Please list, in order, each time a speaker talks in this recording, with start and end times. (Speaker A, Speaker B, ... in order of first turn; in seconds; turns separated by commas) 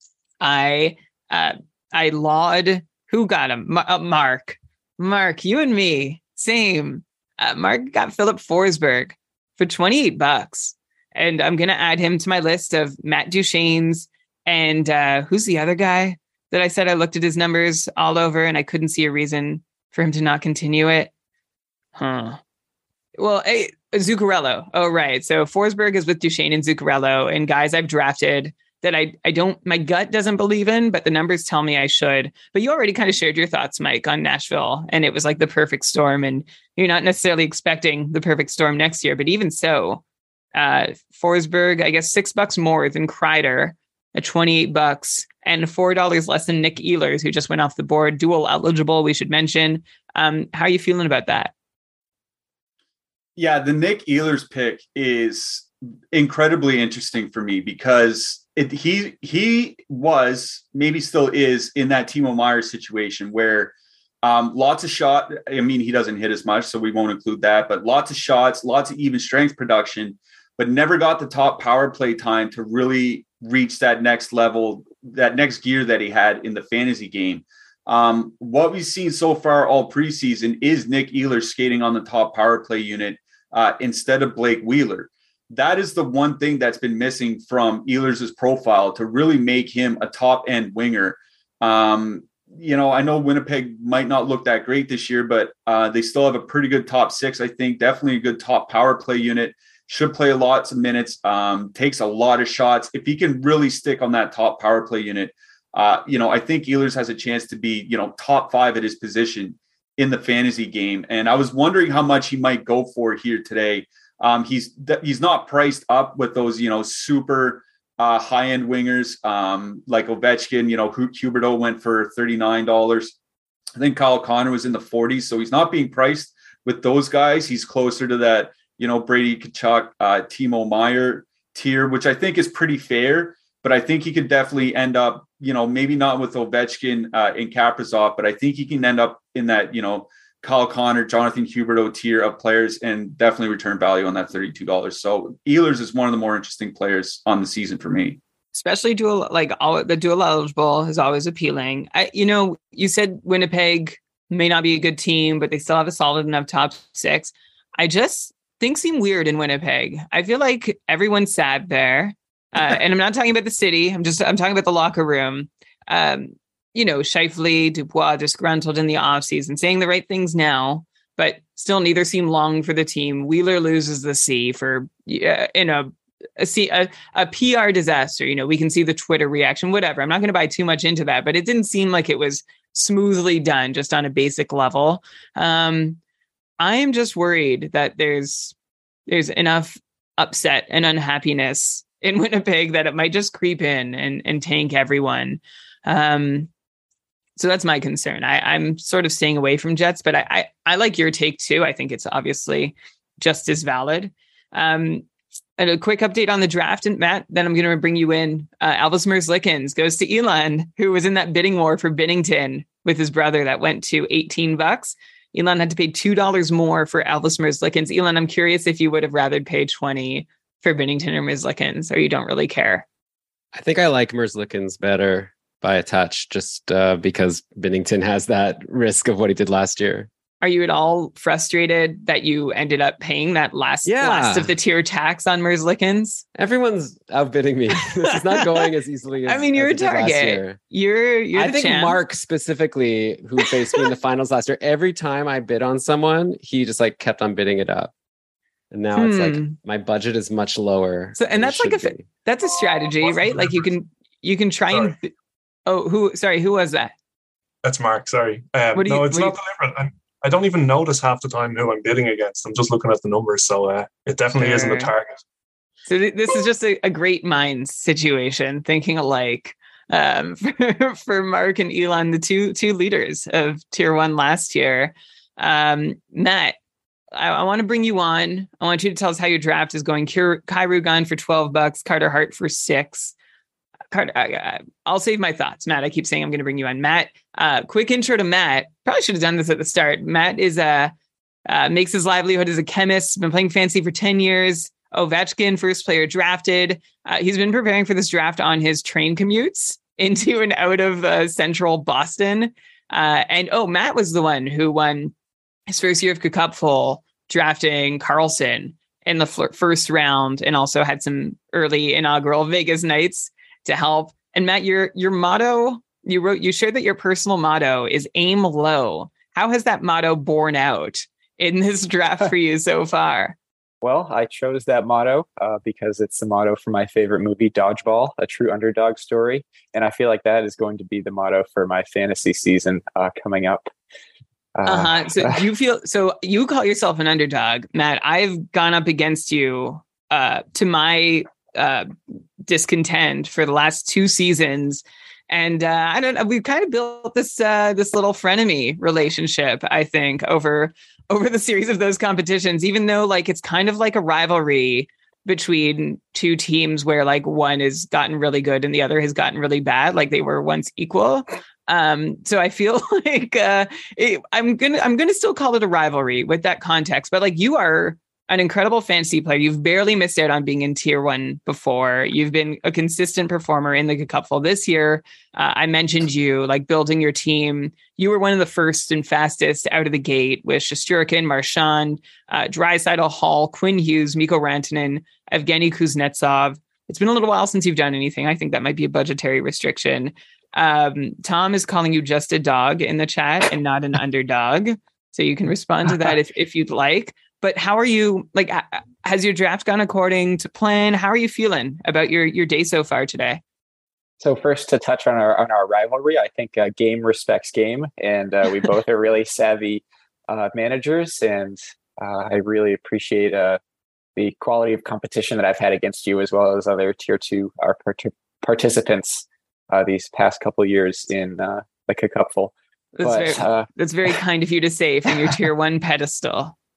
Speaker A: 0.4-21.1, Speaker A: 22.0-22.4, Speaker A: 23.2-40.0, Speaker A: 40.5-51.5, Speaker B: 53.4-123.2, Speaker B: 123.8-148.2, Speaker A: 148.5-186.0, Speaker A: 186.6-188.6, Speaker A: 189.1-196.5, Speaker A: 197.4-205.1, Speaker A: 205.6-222.9, Speaker C: 223.5-230.1, Speaker A: 230.4-236.2, Speaker C: 233.9-234.5, Speaker C: 236.3-240.6, Speaker A: 238.3-238.6, Speaker A: 239.3-242.0, Speaker C: 241.3-247.9, Speaker C: 248.7-252.1, Speaker A: 249.0-249.6, Speaker A: 251.2-255.1, Speaker D: 253.0-253.7, Speaker D: 254.7-255.0, Speaker A: 255.7-256.9, Speaker D: 257.6-265.2, Speaker A: 258.7-259.4, Speaker A: 264.4-264.9, Speaker A: 265.9-276.6, Speaker A: 277.1-283.1, Speaker A: 283.9-290.9, Speaker A: 291.5-305.1, Speaker A: 305.7-323.4, Speaker E: 323.8-333.7, Speaker E: 334.6-335.4, Speaker A: 334.7-403.4, Speaker E: 404.2-413.6, Speaker E: 414.2-423.7, Speaker A: 423.0-426.6